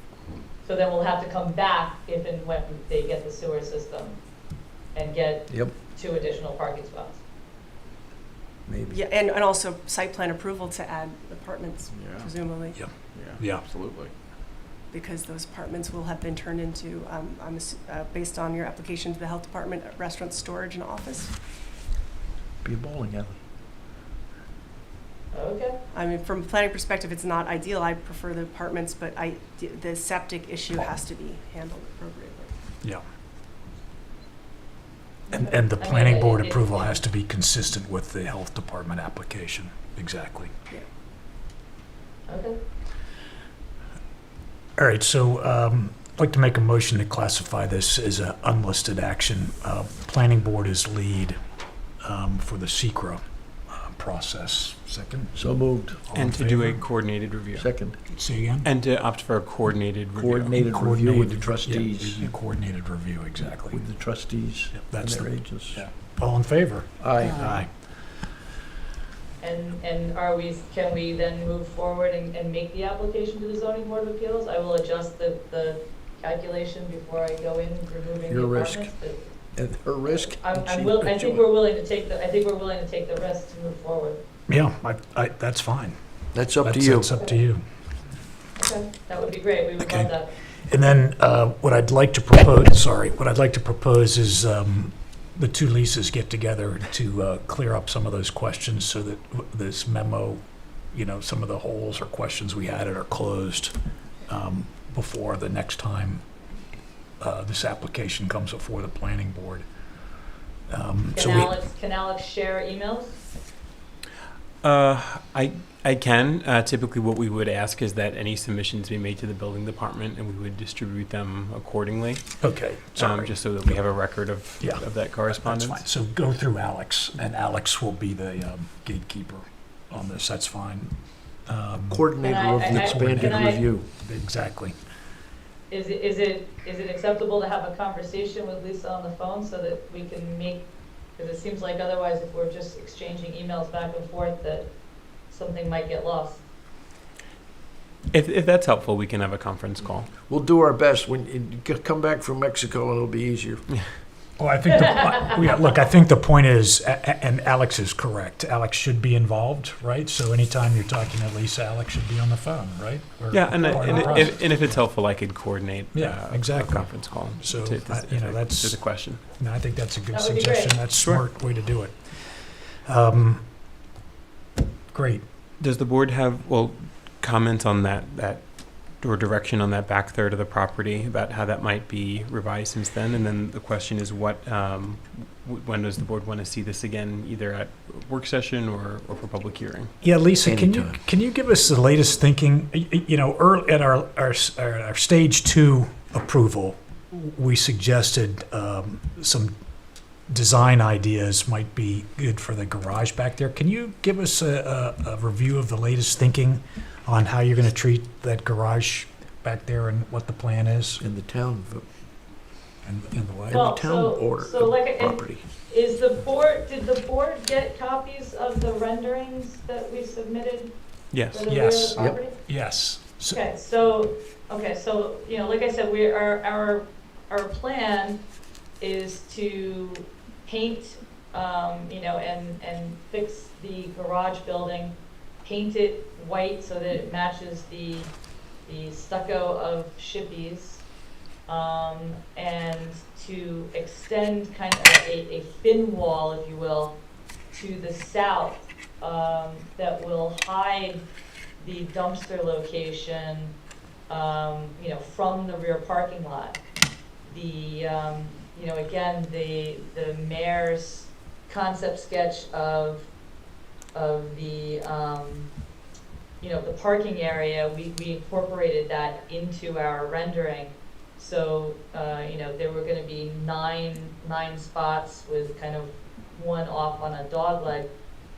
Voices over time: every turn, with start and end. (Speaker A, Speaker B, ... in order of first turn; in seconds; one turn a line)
Speaker A: 0.6-4.2
Speaker A: 4.9-7.2
Speaker B: 5.5-5.8
Speaker B: 8.7-9.0
Speaker C: 8.9-12.8
Speaker D: 12.8-13.7
Speaker E: 13.2-14.1
Speaker C: 14.9-21.3
Speaker B: 22.6-23.4
Speaker A: 25.3-25.8
Speaker C: 25.9-32.5
Speaker A: 35.3-37.0
Speaker D: 35.3-40.5
Speaker A: 42.3-42.6
Speaker D: 44.8-51.4
Speaker D: 52.0-55.4
Speaker B: 55.4-56.0
Speaker D: 56.0-56.8
Speaker E: 56.1-57.7
Speaker B: 57.5-58.0
Speaker D: 58.1-58.7
Speaker E: 58.6-60.6
Speaker B: 60.1-62.3
Speaker D: 60.6-63.8
Speaker B: 63.6-65.8
Speaker D: 64.7-67.7
Speaker B: 67.0-67.4
Speaker A: 69.4-79.2
Speaker B: 78.3-78.9
Speaker B: 79.5-81.5
Speaker A: 80.1-84.2
Speaker D: 84.5-86.0
Speaker B: 86.3-87.1
Speaker D: 86.6-87.6
Speaker A: 88.6-90.3
Speaker D: 89.8-90.1
Speaker D: 90.7-100.4
Speaker D: 100.9-103.8
Speaker D: 104.3-106.2
Speaker D: 107.2-109.7
Speaker D: 110.7-111.5
Speaker A: 111.1-113.2
Speaker E: 114.6-125.8
Speaker D: 122.4-123.8
Speaker D: 124.3-132.1
Speaker B: 131.9-133.9
Speaker A: 132.2-133.7
Speaker D: 132.7-134.8
Speaker A: 135.7-144.7
Speaker A: 145.3-146.4
Speaker E: 148.1-150.1
Speaker B: 150.2-153.6
Speaker D: 154.4-164.8
Speaker E: 163.3-169.2
Speaker A: 163.6-164.3
Speaker D: 165.9-173.5
Speaker A: 170.1-170.8
Speaker E: 170.9-171.2
Speaker D: 174.9-175.2
Speaker E: 175.6-189.9
Speaker D: 190.0-199.5
Speaker B: 190.4-191.0
Speaker D: 200.3-211.0
Speaker B: 211.0-211.9
Speaker D: 212.8-213.8
Speaker B: 213.5-215.4
Speaker A: 213.5-220.7
Speaker E: 221.1-221.5
Speaker A: 221.3-222.3
Speaker D: 221.5-223.4
Speaker B: 222.0-222.2
Speaker A: 223.3-228.2
Speaker A: 228.8-238.1
Speaker A: 238.7-240.8
Speaker A: 241.5-247.0
Speaker A: 247.5-251.1
Speaker A: 251.6-253.5
Speaker A: 254.1-256.6
Speaker A: 257.2-263.1
Speaker A: 263.9-265.5
Speaker A: 266.4-277.9